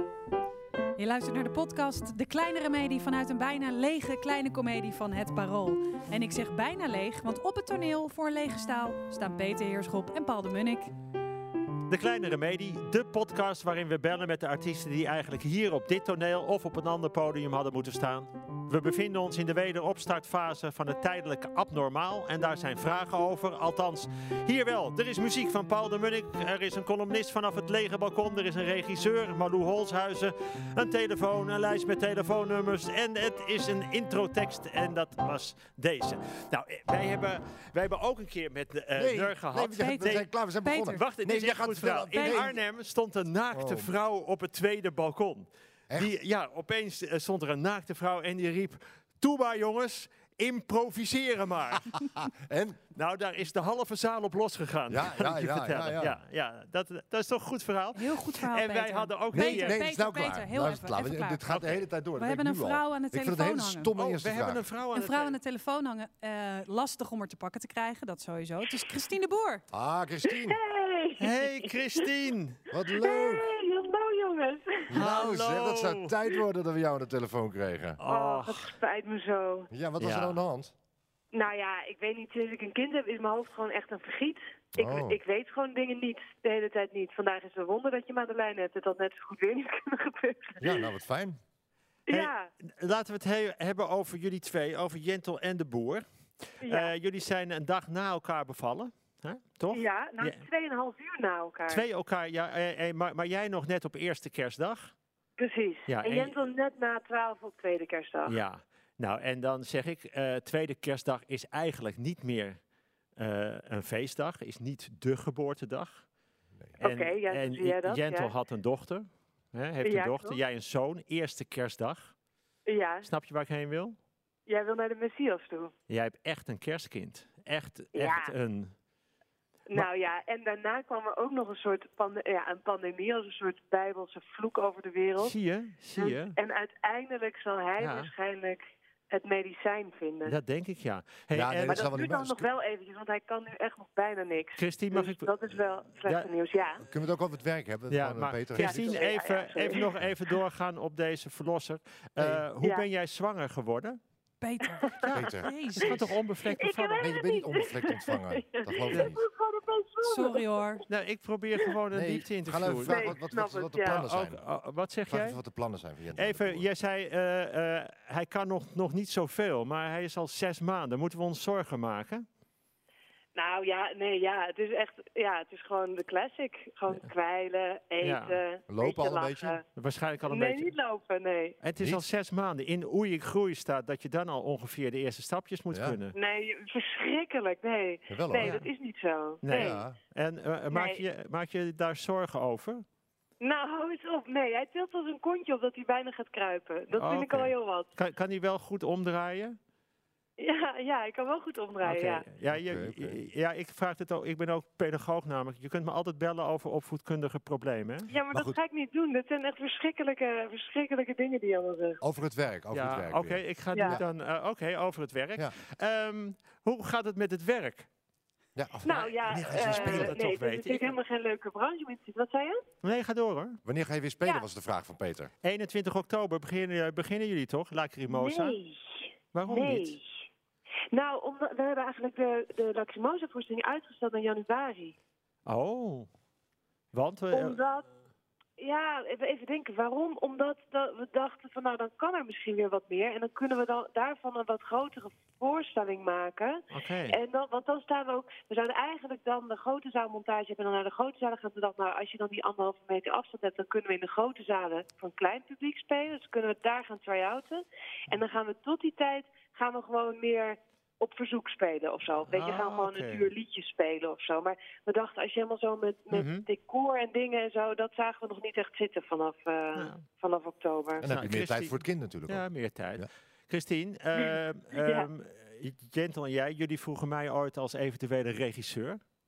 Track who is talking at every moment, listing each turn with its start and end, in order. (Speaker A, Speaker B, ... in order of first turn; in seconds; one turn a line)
Speaker A: 1.0-10.9
Speaker B: 11.9-40.2
Speaker C: 39.0-42.6
Speaker A: 39.8-41.0
Speaker B: 40.9-51.9
Speaker A: 42.1-42.5
Speaker C: 43.5-43.9
Speaker C: 52.2-52.8
Speaker B: 52.9-59.8
Speaker C: 54.9-56.2
Speaker A: 58.0-61.4
Speaker C: 59.3-64.6
Speaker B: 61.5-61.8
Speaker A: 62.1-63.9
Speaker B: 63.9-65.4
Speaker A: 64.9-69.6
Speaker C: 69.7-70.6
Speaker D: 70.4-71.3
Speaker B: 71.2-72.6
Speaker C: 72.7-73.5
Speaker D: 72.9-74.9
Speaker C: 74.9-78.0
Speaker B: 74.9-76.1
Speaker B: 78.0-78.7
Speaker D: 78.1-79.7
Speaker C: 79.7-80.7
Speaker B: 80.0-80.4
Speaker D: 81.3-90.8
Speaker C: 84.8-85.2
Speaker C: 90.6-91.4
Speaker D: 92.1-92.5
Speaker B: 92.1-100.4
Speaker D: 96.6-96.9
Speaker D: 99.7-101.8
Speaker B: 101.7-104.9
Speaker D: 105.4-108.4
Speaker B: 105.9-106.4
Speaker B: 108.2-112.6
Speaker B: 113.2-116.1
Speaker D: 116.8-118.3
Speaker B: 116.8-122.1
Speaker D: 119.8-120.4
Speaker D: 122.7-123.1
Speaker B: 123.0-124.0
Speaker D: 124.5-125.7
Speaker B: 125.9-128.7
Speaker D: 127.9-128.3
Speaker D: 129.7-135.3
Speaker B: 135.2-136.3
Speaker D: 135.9-138.6
Speaker B: 137.8-138.1
Speaker D: 139.1-140.3
Speaker B: 140.2-141.9
Speaker C: 141.3-142.5
Speaker D: 141.7-146.8
Speaker B: 144.6-145.3
Speaker B: 146.0-146.3
Speaker C: 146.8-148.9
Speaker B: 147.9-154.0
Speaker D: 148.6-149.9
Speaker C: 152.2-152.4
Speaker A: 154.4-155.9
Speaker B: 155.1-157.1
Speaker C: 155.1-155.5
Speaker D: 156.6-160.5
Speaker C: 157.0-159.2
Speaker A: 160.0-160.8
Speaker B: 160.9-163.2
Speaker C: 161.9-164.4
Speaker D: 162.9-164.0
Speaker B: 163.8-165.4
Speaker C: 165.1-166.7
Speaker B: 166.2-172.2
Speaker D: 173.3-179.6
Speaker B: 178.0-178.3
Speaker C: 178.7-179.6
Speaker B: 179.7-180.7
Speaker D: 180.3-181.6
Speaker B: 181.6-186.1
Speaker C: 185.7-186.0
Speaker D: 186.1-189.8
Speaker C: 188.1-188.7
Speaker B: 188.4-188.7
Speaker B: 189.4-192.8
Speaker C: 189.5-189.9
Speaker D: 190.7-191.0
Speaker D: 193.4-197.9
Speaker B: 196.9-199.6
Speaker D: 200.4-202.2
Speaker B: 201.8-208.1
Speaker C: 202.5-203.2
Speaker D: 208.1-212.0
Speaker C: 208.3-208.6
Speaker C: 212.0-214.1
Speaker B: 212.7-217.9
Speaker C: 218.5-220.2
Speaker D: 218.8-222.6
Speaker B: 219.3-221.0
Speaker B: 222.8-223.6
Speaker C: 223.6-225.3
Speaker B: 225.4-228.6
Speaker D: 228.1-230.2
Speaker B: 229.3-230.0
Speaker D: 230.9-234.9
Speaker B: 235.4-236.1
Speaker B: 236.9-237.6
Speaker D: 237.3-237.8
Speaker D: 238.6-271.1
Speaker B: 246.7-247.2
Speaker B: 262.3-263.3
Speaker B: 266.1-266.4
Speaker B: 269.8-270.0
Speaker C: 271.0-273.1
Speaker B: 271.1-279.0
Speaker D: 274.2-275.1